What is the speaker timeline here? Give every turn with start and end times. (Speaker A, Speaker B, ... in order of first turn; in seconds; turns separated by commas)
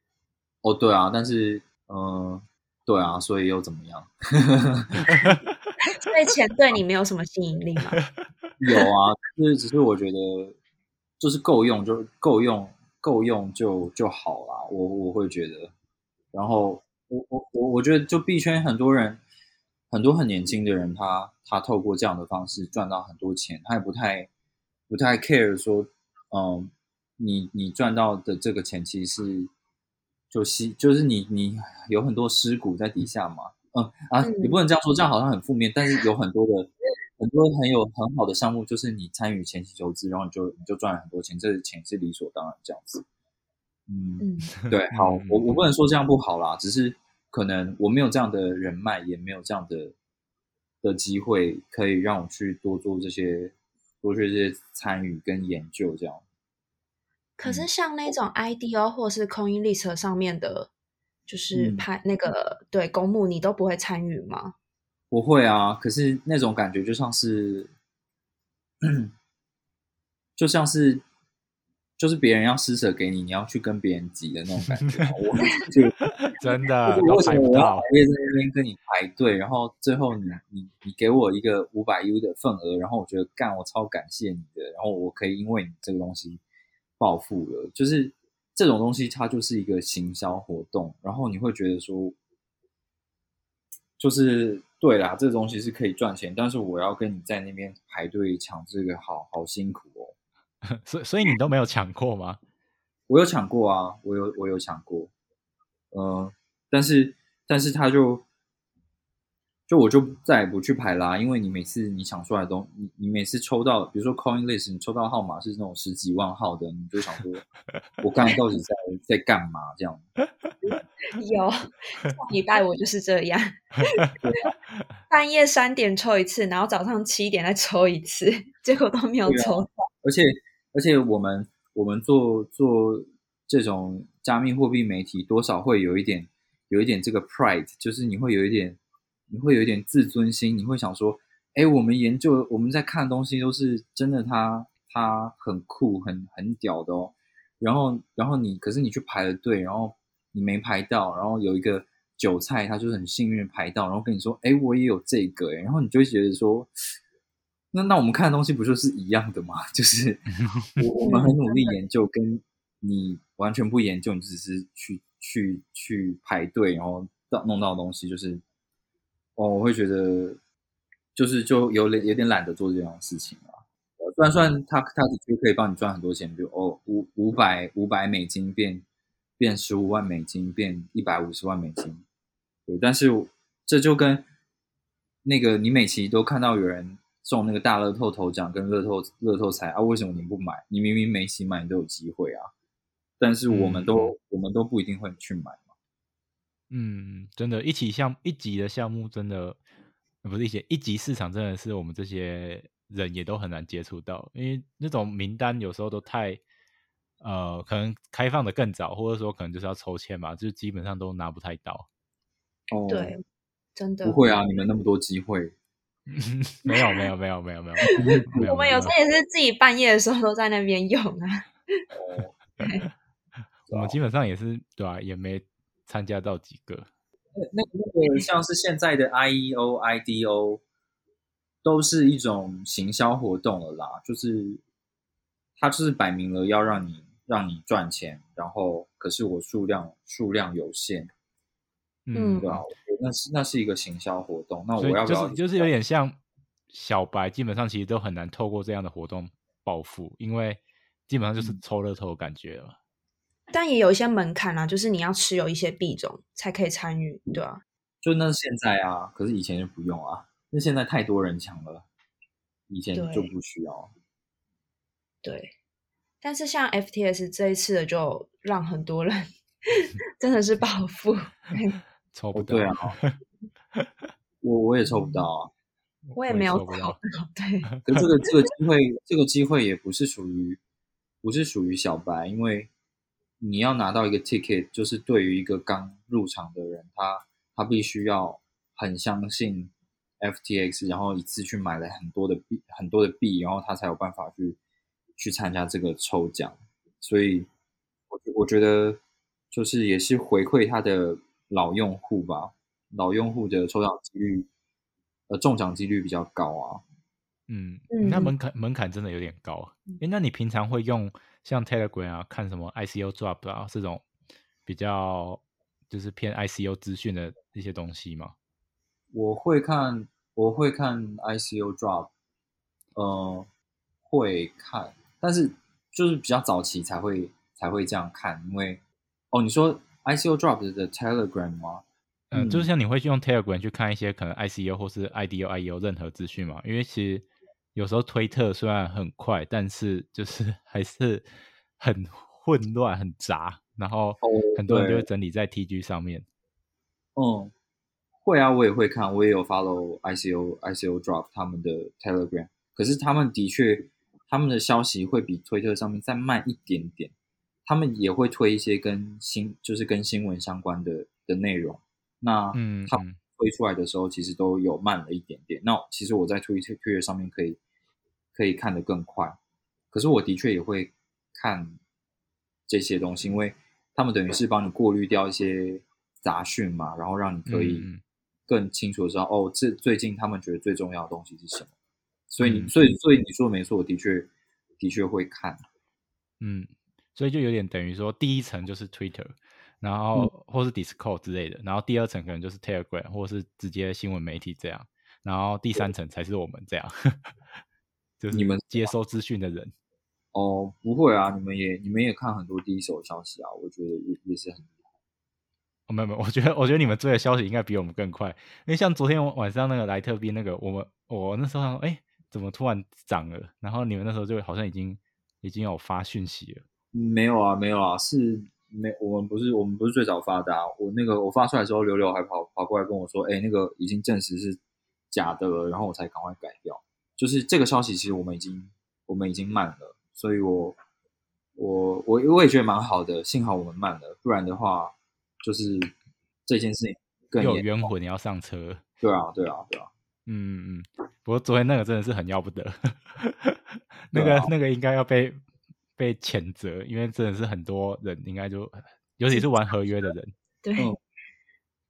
Speaker A: 0.6-5.3, Speaker B: 5.1-5.4, Speaker C: 5.9-8.0, Speaker A: 8.6-10.6, Speaker A: 11.2-15.7, Speaker A: 16.3-19.2, Speaker A: 19.9-24.3, Speaker A: 24.9-29.5, Speaker A: 30.3-43.0, Speaker C: 34.2-34.6, Speaker A: 43.9-49.9, Speaker C: 44.2-44.5, Speaker B: 44.6-45.5, Speaker A: 50.8-56.2, Speaker C: 57.4-60.7, Speaker C: 61.3-64.5, Speaker A: 61.5-61.9, Speaker A: 65.1-67.7, Speaker A: 68.8-69.1, Speaker A: 70.4-71.0, Speaker A: 72.0-76.0, Speaker B: 74.7-75.1, Speaker B: 76.1-77.9, Speaker A: 76.9-86.4, Speaker A: 87.0-92.1, Speaker A: 94.0-100.1, Speaker B: 100.7-102.4, Speaker A: 103.1-105.1, Speaker A: 105.9-108.2, Speaker A: 109.7-117.5, Speaker A: 118.0-120.0, Speaker C: 121.1-124.1, Speaker A: 124.2-124.5, Speaker C: 125.1-129.7, Speaker A: 129.2-138.8, Speaker A: 139.3-156.7, Speaker A: 157.7-168.4, Speaker B: 160.4-160.7, Speaker C: 161.0-161.7, Speaker A: 169.4-170.4, Speaker A: 171.1-178.8, Speaker A: 179.4-182.1, Speaker A: 182.7-184.2, Speaker A: 185.2-192.5, Speaker A: 193.2-195.7, Speaker B: 193.5-194.1, Speaker B: 196.7-199.6, Speaker B: 200.2-206.4, Speaker B: 207.2-211.9, Speaker A: 212.7-213.2, Speaker C: 212.9-213.2, Speaker C: 213.7-214.3, Speaker A: 214.0-215.5, Speaker B: 216.1-218.9, Speaker C: 216.7-217.1, Speaker A: 217.9-218.5, Speaker C: 218.1-221.8, Speaker A: 221.9-222.3, Speaker C: 222.6-222.8, Speaker B: 223.7-226.9, Speaker A: 223.7-224.0, Speaker A: 227.4-230.6, Speaker A: 231.6-234.6, Speaker A: 235.6-241.1, Speaker B: 242.1-242.6, Speaker C: 242.1-242.4, Speaker A: 242.4-245.7, Speaker B: 244.8-246.2, Speaker B: 246.7-252.8, Speaker C: 253.5-257.6, Speaker A: 258.0-261.9, Speaker A: 262.7-263.9, Speaker C: 262.9-263.3, Speaker C: 265.2-265.5, Speaker C: 266.2-271.8, Speaker B: 272.1-273.2, Speaker A: 272.3-272.9, Speaker A: 274.4-275.5, Speaker B: 276.1-277.0, Speaker C: 276.1-277.7, Speaker A: 277.9-280.6, Speaker A: 281.2-282.7, Speaker A: 283.4-294.6, Speaker A: 295.2-297.5, Speaker A: 298.1-299.0, Speaker A: 299.5-304.5, Speaker A: 305.3-306.8, Speaker B: 307.5-314.0, Speaker C: 307.9-308.3, Speaker B: 314.6-318.3, Speaker A: 319.1-322.1, Speaker A: 322.9-323.5, Speaker A: 324.1-328.8, Speaker A: 329.3-332.7, Speaker B: 332.3-341.3, Speaker B: 341.8-346.2, Speaker A: 344.2-345.1, Speaker A: 347.1-347.5, Speaker A: 348.2-357.1, Speaker A: 357.6-367.6, Speaker B: 362.5-363.2, Speaker A: 368.4-369.4, Speaker A: 369.9-371.8, Speaker A: 372.7-377.9, Speaker B: 377.5-378.0, Speaker A: 378.5-381.7, Speaker A: 382.3-385.6, Speaker B: 382.4-382.7, Speaker B: 386.4-397.4, Speaker B: 398.2-399.7, Speaker A: 398.3-398.9, Speaker A: 400.3-404.7, Speaker B: 405.9-416.6, Speaker A: 416.9-424.6, Speaker A: 425.1-430.8, Speaker A: 431.6-435.9, Speaker A: 436.4-437.9, Speaker B: 437.4-438.8, Speaker A: 439.0-439.9, Speaker B: 440.2-445.4, Speaker A: 444.1-444.5, Speaker B: 446.0-450.3, Speaker C: 450.6-450.9